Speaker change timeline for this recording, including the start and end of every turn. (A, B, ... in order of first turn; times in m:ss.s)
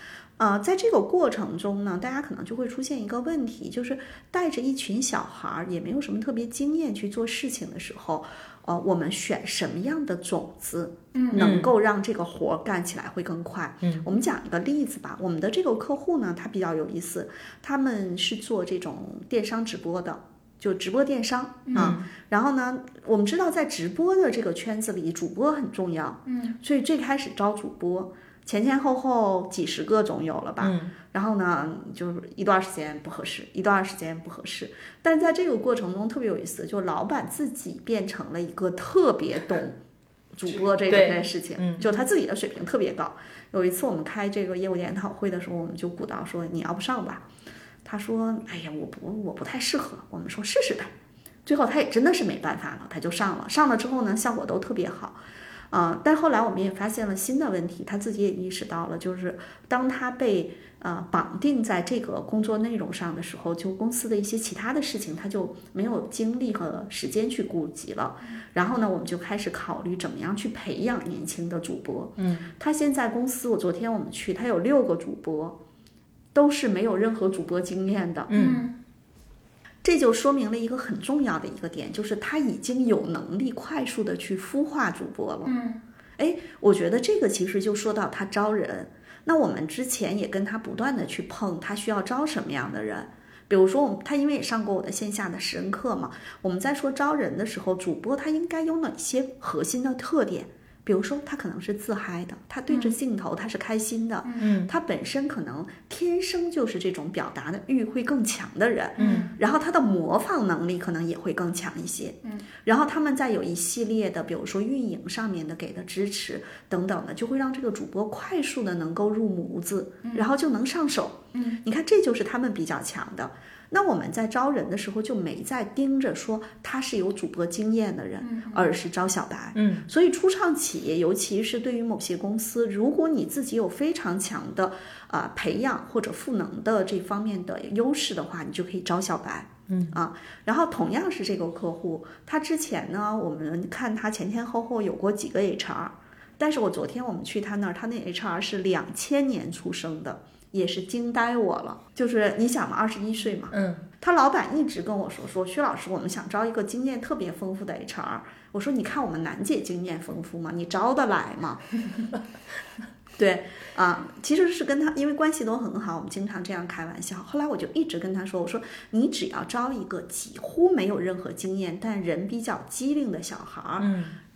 0:00.4-0:39.8 A
0:11.3-0:11.7 B
0:21.7-0:22.1 B
0:30.6-0:31.0 B
0:40.4-0:47.3 A
0:40.9-0:41.9 B
0:47.8-0:50.9 A
0:51.5-0:55.2 A
0:55.7-1:15.6 A
1:12.2-1:12.5 B
1:16.3-1:18.3 A
1:18.3-1:18.7 B
1:19.8-1:25.5 A
1:26.2-2:41.7 A
1:44.4-1:44.7 B
1:49.0-1:49.3 B
2:09.6-2:09.9 B
2:19.7-2:20.0 B
2:33.5-2:33.8 B
2:43.2-2:53.9 A
2:53.8-2:54.2 B